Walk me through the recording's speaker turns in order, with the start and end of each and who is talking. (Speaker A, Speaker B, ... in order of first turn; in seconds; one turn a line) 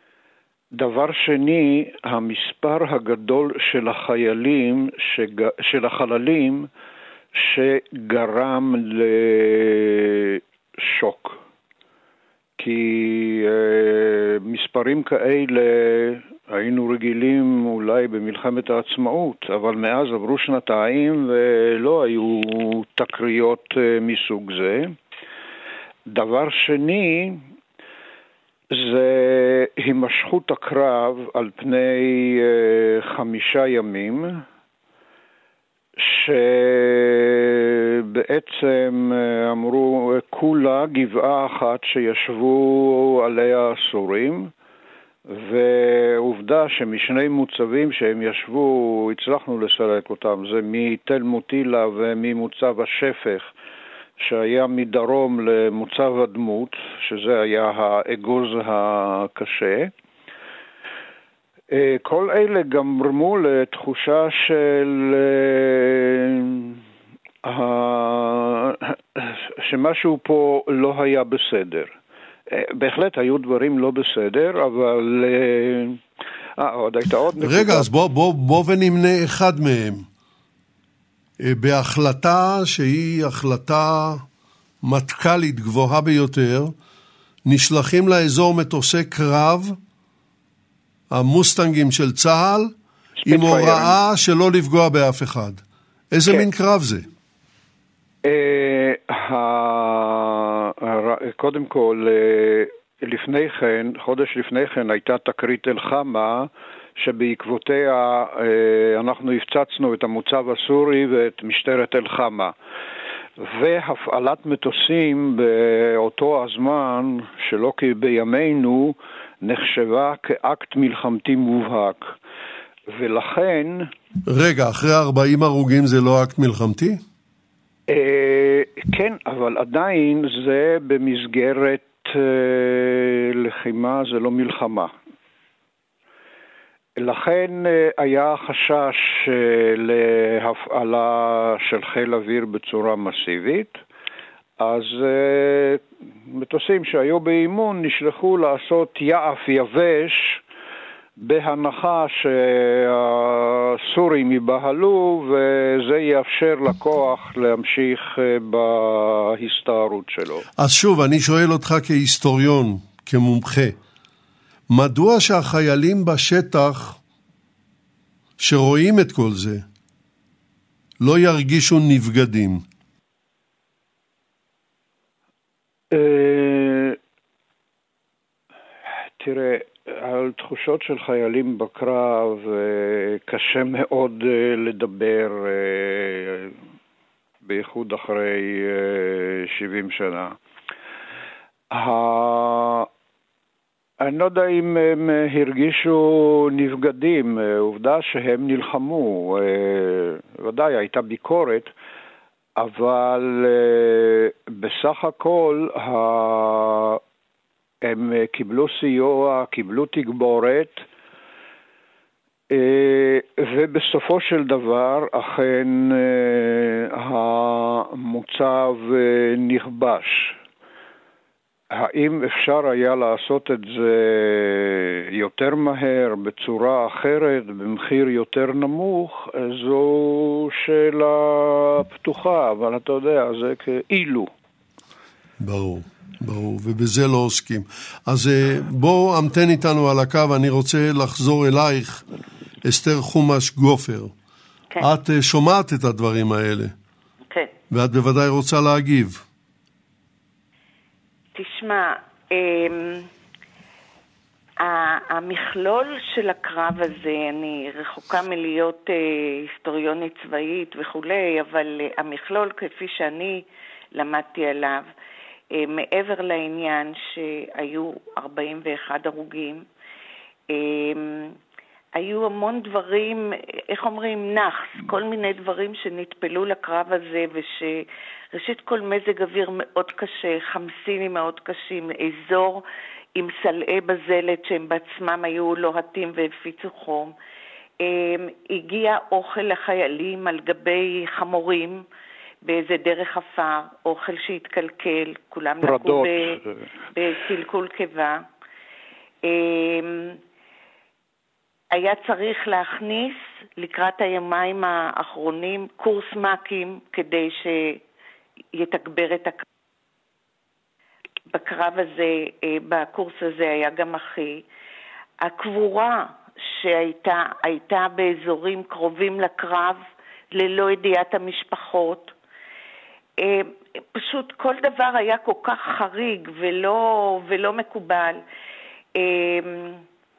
Speaker A: 0.7-6.7
Speaker A: 7.3-11.4
Speaker A: 12.6-25.0
Speaker A: 26.1-27.4
Speaker A: 28.7-34.4
Speaker A: 36.0-44.5
Speaker A: 45.3-53.5
Speaker A: 54.2-59.9
Speaker A: 61.7-66.8
Speaker A: 67.4-72.0
Speaker A: 72.5-76.0
Speaker A: 76.6-77.9
Speaker B: 77.4-80.0
Speaker B: 81.4-84.2
Speaker B: 84.8-86.7
Speaker B: 87.5-89.8
Speaker B: 91.1-92.7
Speaker A: 93.2-94.0
Speaker B: 93.3-97.1
Speaker A: 98.2-112.5
Speaker A: 113.4-122.1
Speaker A: 122.9-123.9
Speaker B: 124.3-127.0
Speaker A: 127.9-134.9
Speaker A: 137.0-143.8
Speaker A: 144.6-150.4
Speaker A: 151.2-160.4
Speaker B: 160.6-163.8
Speaker B: 164.7-167.0
Speaker B: 168.4-169.6
Speaker B: 171.0-172.6
Speaker A: 175.9-177.0
Speaker A: 179.2-186.6
Speaker A: 187.4-190.4
Speaker A: 191.7-192.9
Speaker A: 194.0-201.7
Speaker A: 202.6-207.0
Speaker A: 207.8-210.8
Speaker A: 212.5-220.4
Speaker A: 221.7-234.3
Speaker B: 235.4-242.0
Speaker B: 242.6-244.1
Speaker B: 244.8-246.7
Speaker B: 247.7-249.2
Speaker C: 251.3-253.1
Speaker C: 254.6-264.9
Speaker C: 265.5-269.7
Speaker C: 270.5-271.4
Speaker C: 271.9-282.6
Speaker C: 283.2-287.1
Speaker C: 287.8-291.9
Speaker C: 292.4-296.4
Speaker A: 295.6-296.6
Speaker C: 296.9-298.2
Speaker C: 299.2-300.2
Speaker C: 301.7-307.8
Speaker C: 308.5-309.4
Speaker C: 311.3-314.4
Speaker C: 315.2-319.8
Speaker C: 320.3-322.1
Speaker C: 323.2-328.2
Speaker C: 328.9-329.8